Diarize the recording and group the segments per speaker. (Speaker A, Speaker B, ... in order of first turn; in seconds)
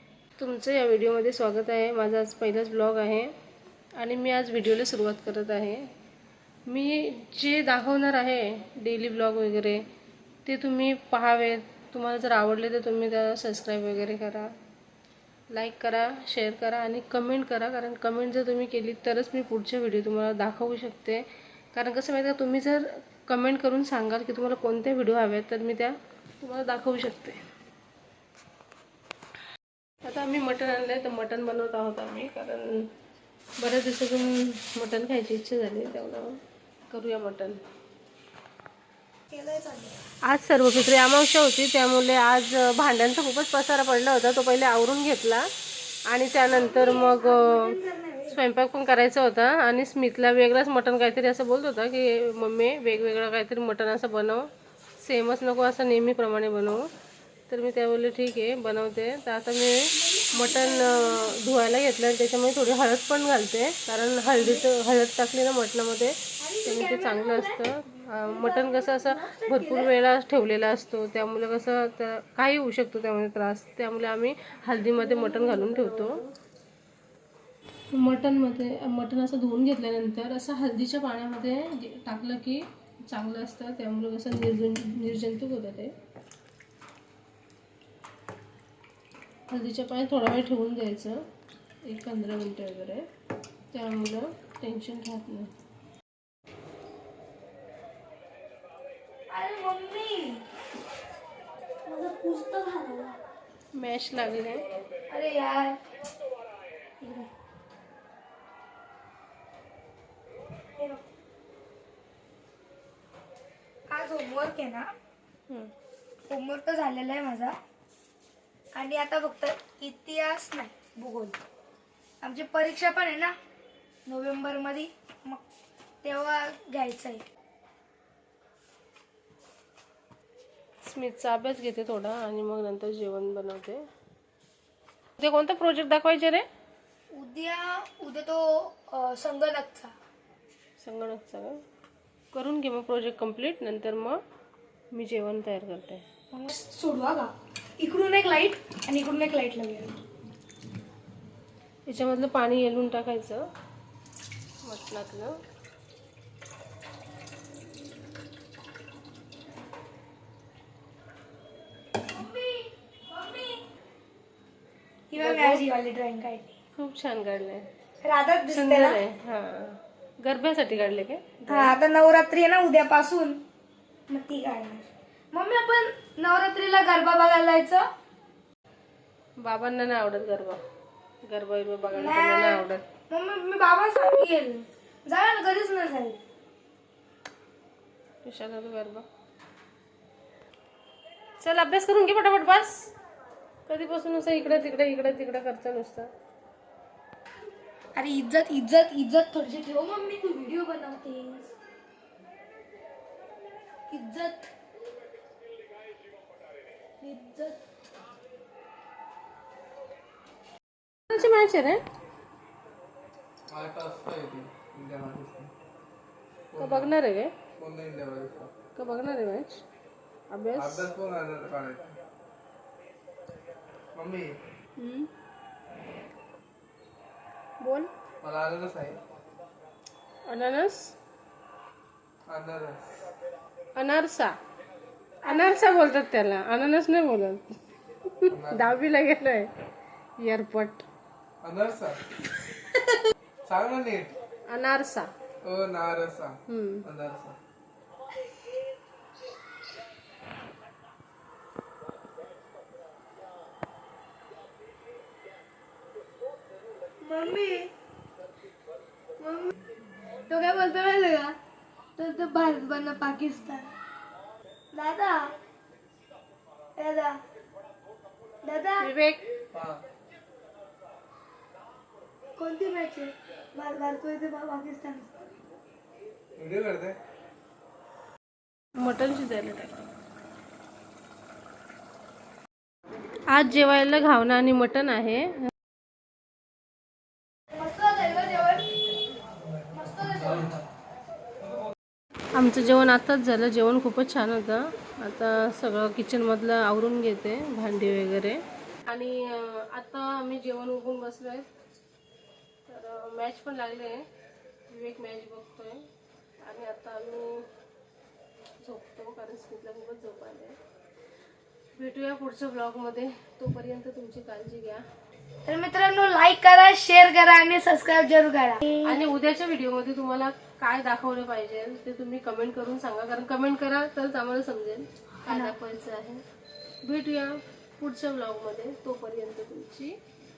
Speaker A: 0.4-3.3, 4.0-5.9, 6.7-9.8, 10.4-14.5, 15.5-27.4, 30.0-32.9, 33.6-37.6, 40.2-45.5, 46.1-47.8, 48.3-56.9, 57.5-76.2, 77.9-85.9, 89.5-91.2, 91.8-93.0, 93.7-95.5, 103.7-104.7, 130.8-133.8, 135.2-136.4, 140.8-141.6, 142.3-144.2, 144.9-146.0, 151.9-153.4, 154.6-155.4, 165.2-165.6, 166.8-167.7, 168.5-171.7, 179.4-180.6, 181.2-182.8, 188.2-189.1, 191.4-192.9, 193.7-196.1, 211.1-211.8, 216.6-217.3, 218.8-219.6, 220.3-220.9, 224.8-225.1, 227.6-227.9, 230.2-230.9, 233.8-234.3, 235.2-239.5, 240.2-240.8, 242.5-243.0, 244.5-245.1, 246.5-246.8, 268.8-269.2, 278.8-279.9, 283.3-285.5, 292.3-301.5, 302.7-304.1, 304.7-305.9, 306.4-307.4, 308.6-310.6, 311.8-314.9, 318.8-326.2, 326.8-330.0
Speaker B: 39.3-40.0, 46.5-48.4, 59.9-61.4, 64.3-64.6, 66.4-67.6, 68.2-69.9, 74.9-76.3, 99.3-100.5, 101.8-103.2, 105.1-105.8, 107.0-107.3, 110.8-111.0, 113.9-114.9, 116.3-117.6, 118.7-121.4, 122.2-123.3, 124.0-125.4, 126.0-127.2, 137.1-139.9, 146.3-149.9, 162.0-163.6, 165.1-166.5, 168.0-169.0, 171.5-173.4, 174.1-177.8, 181.9-186.2, 197.9-201.5, 203.9-204.5, 207.0-207.6, 235.2-235.7, 257.0-257.7, 259.2-259.5, 260.3-261.4, 262.0-263.7, 264.7-265.3, 266.8-267.2, 268.4-268.9, 272.4-275.2, 287.5-288.8, 289.7-290.6, 315.4-319.0, 325.2-325.5
Speaker C: 213.5-215.5, 216.5-216.9, 217.6-218.5, 220.5-222.0, 223.9-224.4, 228.2-229.0, 232.3-232.9, 238.3-238.7, 241.4-242.0, 243.4-244.2, 245.4-247.4, 269.5-269.8, 276.4-277.0